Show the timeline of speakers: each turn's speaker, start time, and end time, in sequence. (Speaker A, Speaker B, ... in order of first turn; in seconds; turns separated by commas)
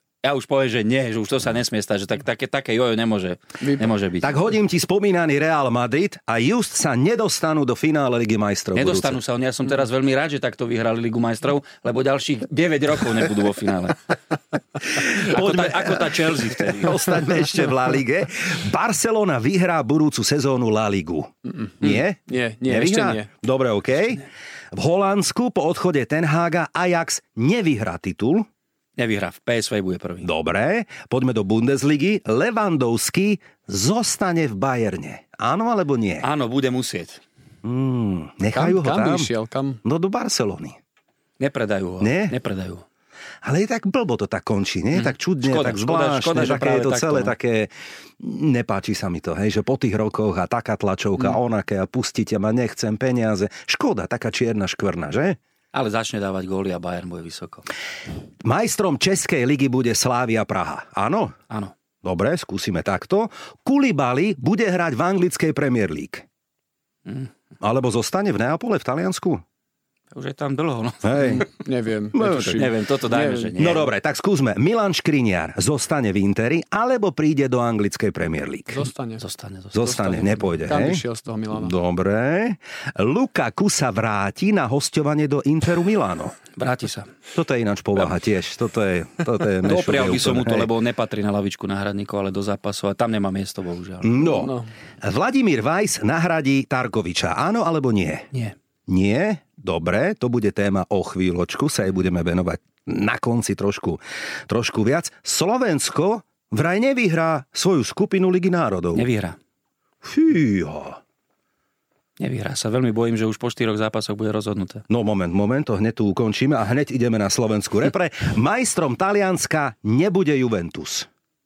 Speaker A: 0.2-4.3, Speaker B: 3.6-3.9, Speaker C: 4.2-9.2, Speaker A: 8.7-14.0, Speaker C: 14.9-28.5, Speaker A: 14.9-17.0, Speaker B: 21.5-23.3, Speaker A: 29.0-30.3, Speaker C: 30.2-36.2, Speaker A: 36.2-37.2, Speaker C: 37.6-39.3, Speaker B: 38.5-39.8, Speaker C: 39.8-40.8, Speaker A: 41.4-42.9, Speaker C: 42.0-42.4, Speaker C: 43.4-55.4, Speaker A: 44.9-47.4, Speaker A: 55.7-57.7, Speaker C: 58.4-61.4, Speaker C: 62.0-66.3, Speaker C: 67.6-69.4, Speaker A: 70.1-71.5, Speaker C: 71.0-71.5, Speaker B: 71.4-73.7, Speaker C: 72.2-72.7, Speaker A: 72.5-73.9, Speaker C: 73.6-78.8, Speaker B: 78.7-79.2, Speaker A: 79.2-80.1, Speaker C: 79.7-81.0, Speaker B: 79.8-81.7, Speaker C: 81.5-86.4, Speaker A: 86.6-87.1, Speaker C: 87.3-90.7, Speaker A: 89.6-94.4, Speaker C: 94.0-94.5, Speaker B: 94.3-94.7, Speaker C: 95.0-98.3, Speaker C: 98.9-109.0, Speaker A: 109.0-109.4, Speaker C: 110.0-111.0, Speaker A: 112.2-114.8, Speaker C: 114.9-121.1